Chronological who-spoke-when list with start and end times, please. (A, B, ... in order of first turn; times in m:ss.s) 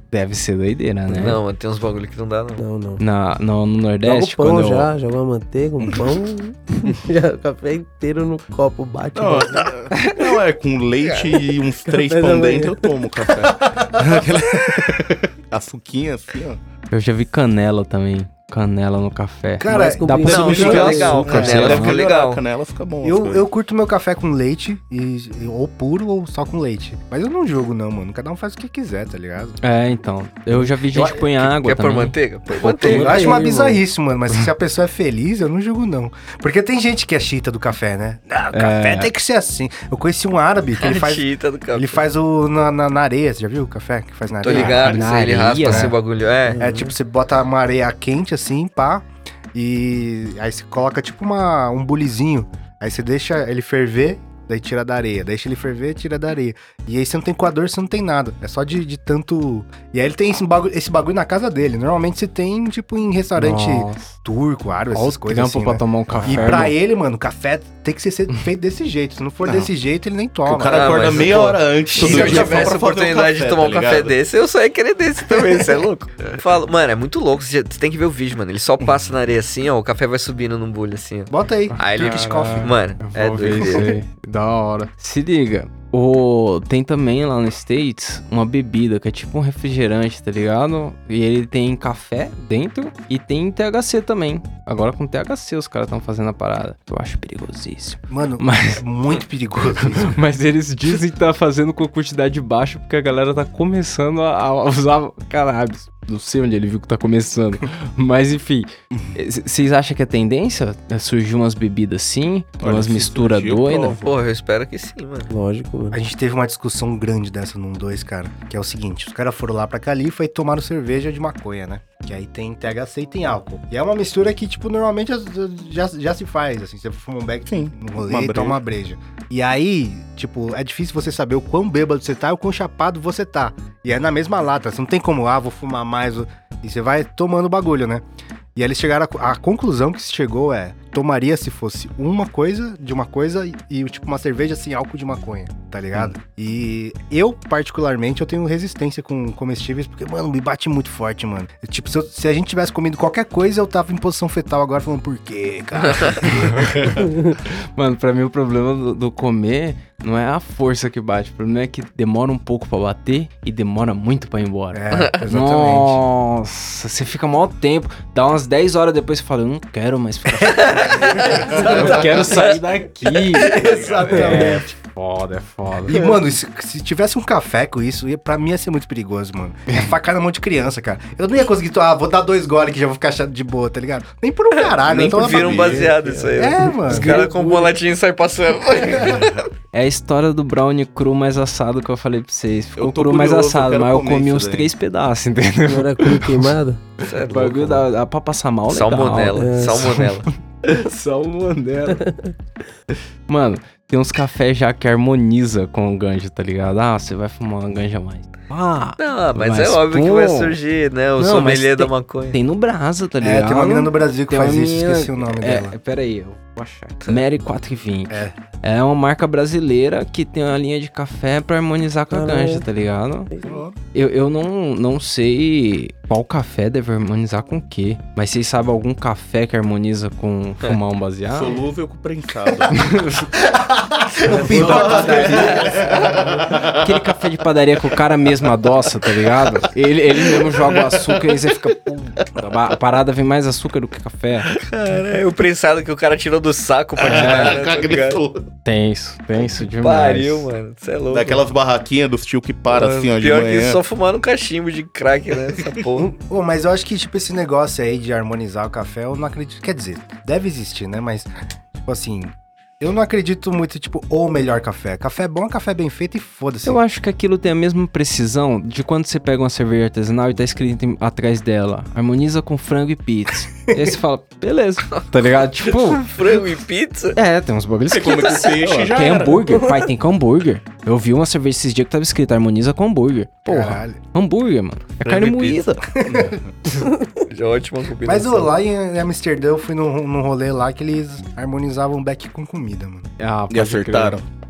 0:00.1-0:01.4 A
0:01.1-0:02.6 B
0:02.6-0:03.0 C
0:03.0-0:04.9 A
0:04.0-0:09.7 C
0:05.8-0:06.1 D
0:09.1-0:16.6 D
0:09.9-0:10.2 A
0:11.9-0:13.3 C
0:16.9-0:22.0 A
0:19.6-0:21.7 E
0:19.7-0:21.4 C
0:20.2-0:22.4 B
0:20.3-0:23.4 D
0:23.0-0:29.6 E
0:29.6-0:33.4 A
0:31.4-0:33.2 B
0:32.7-0:45.1 E
0:32.8-0:33.8 C
0:38.5-0:39.1 A
0:40.8-0:42.0 B
0:44.4-0:46.6 B
0:44.5-0:45.9 A
0:45.6-0:45.9 E
0:46.5-0:46.9 C
0:46.6-1:11.4 E
1:03.4-1:04.1 A
1:04.9-1:06.8 A
1:10.4-1:14.1 D
1:10.6-1:23.9 B
1:12.0-1:12.7 E
1:12.0-1:12.5 A
1:21.3-1:22.7 E
1:21.7-1:38.8 A
1:23.6-1:23.8 E
1:38.1-1:40.1 E
1:39.8-1:54.0 A
1:52.6-1:54.1 D
1:53.9-1:55.3 B
1:55.3-1:56.0 C
1:55.9-2:18.0 E
2:07.5-2:08.6 D
2:18.5-2:36.9 E
2:36.3-2:56.0 A
2:44.7-2:46.0 E
2:50.5-2:52.5 B
2:51.0-2:52.1 E
2:53.1-2:54.3 B
2:53.5-2:54.7 E
2:54.1-2:54.6 C
2:55.8-3:07.3 E
3:04.7-3:09.4 B
3:04.9-3:06.0 D
3:05.8-3:07.7 C
3:09.0-3:09.4 D
3:09.7-3:16.5 A
3:12.8-3:14.7 D
3:15.7-3:16.8 C
3:17.0-3:17.9 B
3:17.3-3:20.0 A
3:18.7-3:20.3 B
3:19.4-3:19.9 C
3:20.6-3:22.0 A
3:21.9-3:22.3 C
3:23.3-3:30.6 A
3:29.0-3:32.4 B
3:31.2-3:43.3 A
3:33.2-3:35.7 E
3:38.1-3:38.3 E
3:42.1-3:42.6 C
3:43.3-3:43.6 C
3:43.4-3:43.8 D
3:43.9-3:51.6 A
3:51.3-3:53.0 D
3:52.7-3:53.2 A
3:53.4-3:56.2 E
3:54.3-3:55.6 A
3:54.3-3:57.0 D
3:55.2-3:56.1 B
3:56.7-4:04.5 A
4:00.4-4:01.3 D
4:04.6-4:08.2 B
4:07.0-4:08.5 D
4:07.0-4:07.6 A
4:08.6-4:10.5 A
4:09.8-4:11.4 B
4:11.1-4:13.8 D
4:12.7-4:16.1 B
4:16.0-4:21.3 E
4:21.8-4:26.8 E
4:26.6-4:36.1 A
4:35.6-4:37.2 B
4:37.2-4:45.8 A
4:37.9-4:39.7 D
4:43.4-4:44.0 E
4:45.0-4:45.6 B
4:46.0-4:46.4 E
4:46.1-4:46.4 D
4:47.3-4:48.5 B
4:48.0-4:53.1 E
4:53.2-4:54.2 A
4:53.5-4:54.2 D